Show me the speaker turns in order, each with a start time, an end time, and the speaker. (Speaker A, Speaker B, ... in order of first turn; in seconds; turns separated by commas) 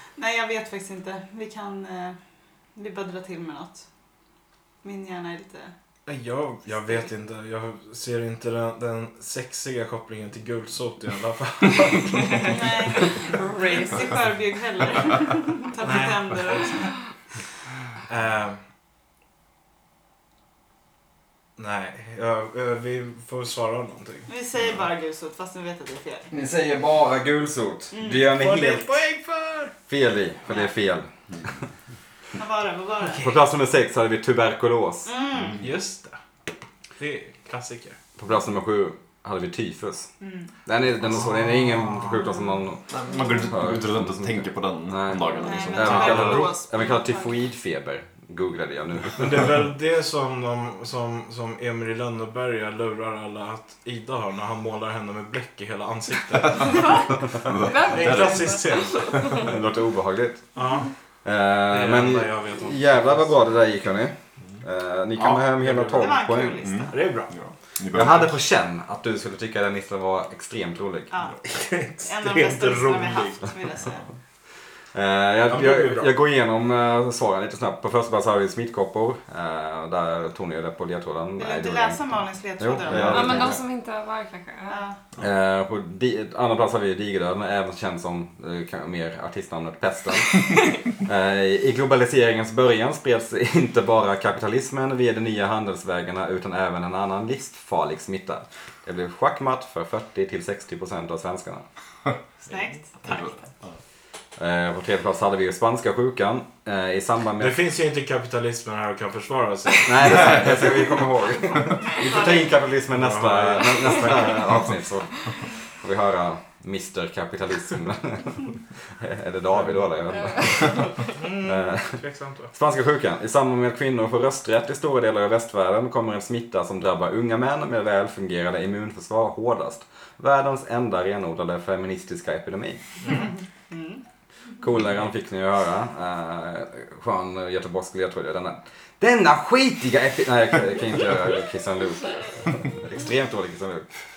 Speaker A: 0.2-2.2, Speaker A: 2.8-3.9, Speaker A: 4.8-5.7, Speaker B: 6.1-13.2, Speaker A: 12.4-16.9, Speaker C: 13.3-14.3, Speaker B: 15.8-16.3, Speaker B: 18.1-18.6, Speaker B: 21.6-24.3, Speaker A: 24.3-26.3, Speaker D: 26.3-29.0, Speaker A: 27.9-28.2, Speaker B: 28.2-29.8, Speaker D: 29.9-31.1, Speaker A: 30.5-30.7, Speaker E: 31.3-31.6, Speaker A: 32.4-33.4, Speaker D: 33.2-35.1, Speaker A: 35.1-35.6, Speaker B: 35.6-36.2, Speaker B: 37.0-38.0, Speaker D: 38.2-40.1, Speaker A: 40.2-40.5, Speaker D: 40.6-43.0, Speaker B: 41.2-42.3, Speaker E: 42.9-46.4, Speaker D: 43.5-49.5, Speaker A: 45.4-47.4, Speaker B: 45.9-46.5, Speaker B: 49.1-59.5, Speaker E: 57.4-59.4, Speaker C: 57.6-59.5, Speaker D: 59.4-60.5, Speaker B: 60.5-60.9, Speaker D: 61.2-66.6, Speaker B: 61.7-63.3, Speaker B: 65.2-66.1, Speaker A: 65.9-67.0, Speaker E: 66.6-68.4, Speaker B: 66.9-67.3, Speaker D: 67.9-71.1, Speaker A: 71.1-71.4, Speaker B: 71.5-73.5, Speaker A: 71.9-74.0, Speaker D: 74.9-83.6, Speaker B: 75.5-76.1, Speaker A: 81.4-83.5, Speaker E: 82.9-83.2, Speaker C: 83.1-84.8, Speaker A: 84.7-85.0, Speaker D: 85.2-101.7, Speaker A: 102.4-103.3, Speaker E: 103.0-103.8, Speaker D: 104.4-107.6, Speaker B: 107.4-110.8, Speaker D: 109.8-120.9, Speaker A: 111.8-112.5, Speaker B: 112.9-114.7, Speaker C: 120.2-121.0, Speaker B: 121.0-122.5, Speaker D: 121.4-122.0, Speaker D: 122.5-133.2, Speaker A: 133.1-134.0, Speaker D: 134.6-143.9